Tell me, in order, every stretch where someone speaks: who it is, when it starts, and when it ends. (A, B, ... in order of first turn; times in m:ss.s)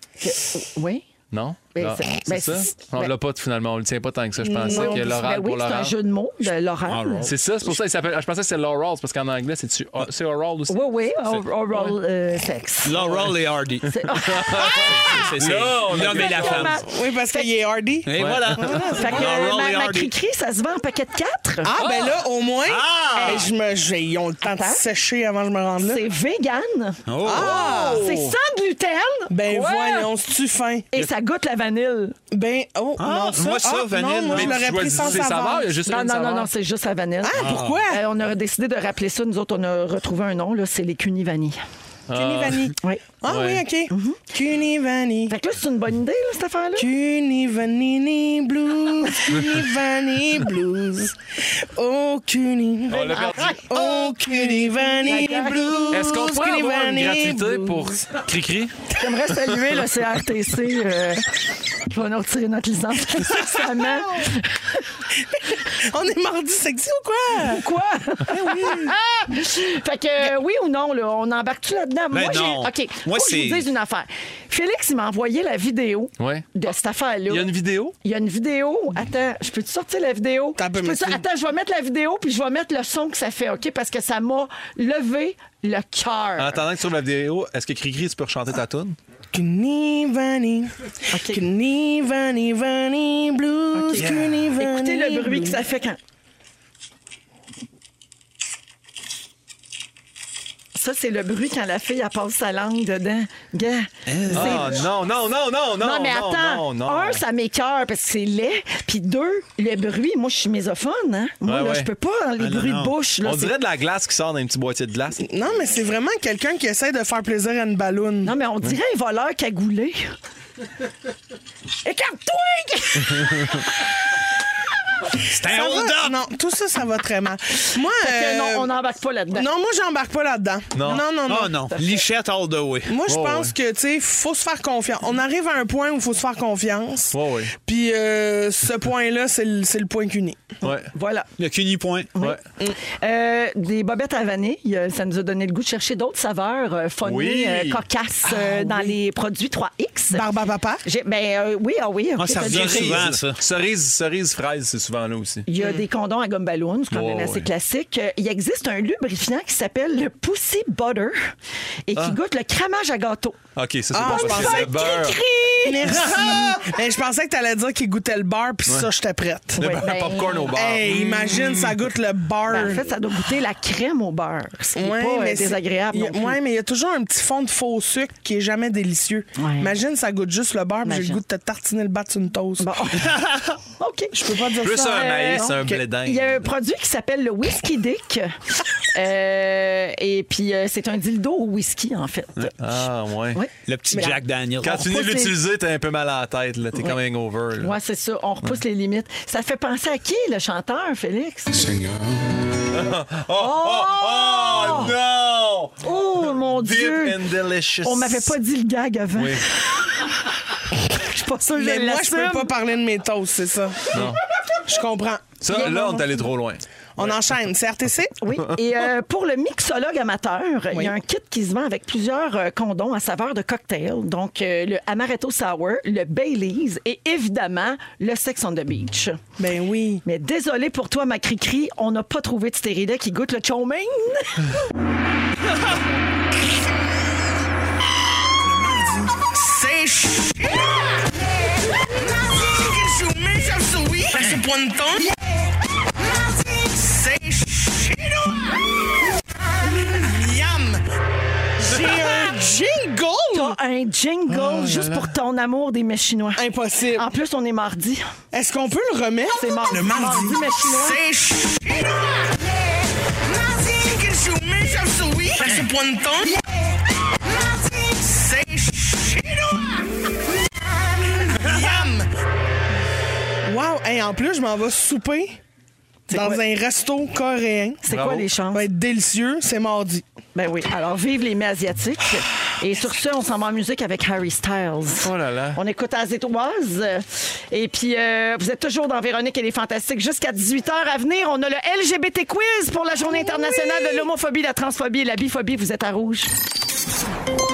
0:00.2-0:01.1 A
0:01.3-0:06.0 B
0:01.7-0:03.1 A
0:04.4-0:05.2 C
0:04.6-0:07.3 A
0:06.9-0:07.5 D
0:07.2-0:10.8 B
0:10.7-0:12.9 A
0:12.8-0:16.8 D
0:13.0-0:13.3 B
0:13.9-0:15.2 A
0:14.3-0:16.7 B
0:15.9-0:17.5 A
0:16.8-0:19.3 C
0:18.0-0:20.1 D
0:18.2-0:19.0 B
0:18.8-0:21.7 A
0:21.6-0:26.0 C
0:21.8-0:22.2 B
0:22.6-0:23.5 D
0:23.2-0:23.5 A
0:24.4-0:24.8 A
0:25.8-0:30.1 A
0:27.1-0:27.9 D
0:27.2-0:28.1 C
0:27.6-0:28.4 B
0:29.3-0:30.9 C
0:30.9-0:32.2 A
0:32.3-0:35.7 C
0:33.0-0:35.1 D
0:34.3-0:36.5 B
0:35.9-0:41.6 A
0:37.2-0:38.0 C
0:37.4-0:37.8 D
0:42.1-0:42.7 B
0:42.1-0:45.3 C
0:43.3-0:43.6 B
0:43.9-0:44.2 A
0:45.3-0:46.9 A
0:46.8-0:51.2 C
0:51.7-0:58.0 C
0:52.9-0:53.6 B
0:53.0-0:55.9 A
0:55.9-0:58.9 B
0:59.0-1:01.3 A
1:01.9-1:04.9 A
1:03.4-1:04.0 C
1:05.3-1:07.6 C
1:07.4-1:26.6 A
1:08.2-1:09.0 C
1:12.1-1:13.6 D
1:16.2-1:16.4 B
1:17.3-1:18.0 B
1:20.6-1:21.2 C
1:26.4-1:29.0 B
1:29.3-1:35.6 C
1:31.1-1:31.4 A
1:33.7-1:36.0 A
1:34.0-1:34.4 D
1:40.7-1:44.8 A
1:44.1-1:44.9 D
1:44.3-1:47.2 B
1:45.8-1:53.6 A
1:51.4-1:51.9 B
1:52.4-1:53.0 D
1:53.2-1:55.2 B
1:55.2-1:58.3 C
1:58.2-2:00.1 A
2:01.8-2:03.9 A
2:05.3-2:06.2 D
2:05.4-2:08.7 C
2:08.0-2:09.5 A
2:09.3-2:11.5 C
2:10.7-2:11.0 B
2:10.8-2:12.0 A
2:11.3-2:13.0 D
2:12.9-2:20.5 C
2:13.0-2:13.5 B
2:17.1-2:17.5 B
2:20.6-2:20.9 B
2:20.9-2:21.3 A
2:21.4-2:22.1 D
2:22.2-2:30.2 A
2:27.0-2:27.8 B
2:28.2-2:29.0 C
2:30.1-2:30.8 C
2:30.8-2:33.0 A
2:32.2-2:33.4 D
2:32.3-2:35.5 B
2:35.5-2:41.3 A
2:35.6-2:35.8 C
2:36.9-2:37.5 B
2:41.9-2:43.4 A
2:43.6-2:45.2 B
2:43.9-2:45.0 C
2:44.0-2:46.2 A
2:45.6-2:49.8 C
2:49.6-2:50.6 A
2:49.6-2:51.7 B
2:50.5-2:52.9 C
2:52.5-2:56.4 A
2:54.8-3:02.7 C
2:59.4-2:59.7 A
3:00.8-3:01.2 A
3:02.6-3:03.1 A
3:03.0-3:03.6 D
3:03.8-3:04.1 A
3:04.1-3:05.8 C
3:04.6-3:06.4 B
3:04.8-3:08.3 A
3:08.9-3:12.6 A
3:12.6-3:13.4 B
3:13.3-3:15.4 A
3:13.6-3:14.9 D
3:14.6-3:17.7 B
3:17.6-3:21.6 A
3:22.6-3:28.4 B
3:23.3-3:25.0 A
3:25.8-3:29.4 A
3:29.1-3:29.4 B
3:30.8-3:32.5 A
3:31.6-3:34.0 C
3:33.9-3:34.2 B
3:34.6-3:36.0 C
3:35.4-3:37.2 B
3:35.5-3:36.2 A
3:37.0-3:38.1 C
3:38.2-3:49.2 A
3:49.4-3:50.0 C
3:50.0-3:54.5 A
3:58.4-4:00.9 C
4:01.9-4:05.2 C
4:06.4-4:08.6 C
4:09.6-4:10.8 C
4:11.6-4:13.6 C
4:13.3-4:16.4 A
4:14.3-4:15.1 B
4:16.4-4:17.1 C
4:17.0-4:18.0 A
4:18.3-4:22.5 C
4:19.4-4:21.0 A
4:23.1-4:26.5 C
4:27.4-4:29.8 C
4:31.1-4:32.1 C
4:33.4-4:35.4 C
4:36.1-4:36.4 A
4:36.1-4:37.8 C
4:37.8-4:38.6 A
4:37.9-4:38.3 B
4:38.5-4:40.0 C
4:40.3-4:56.3 A
4:45.0-4:45.6 B
4:53.1-4:54.0 C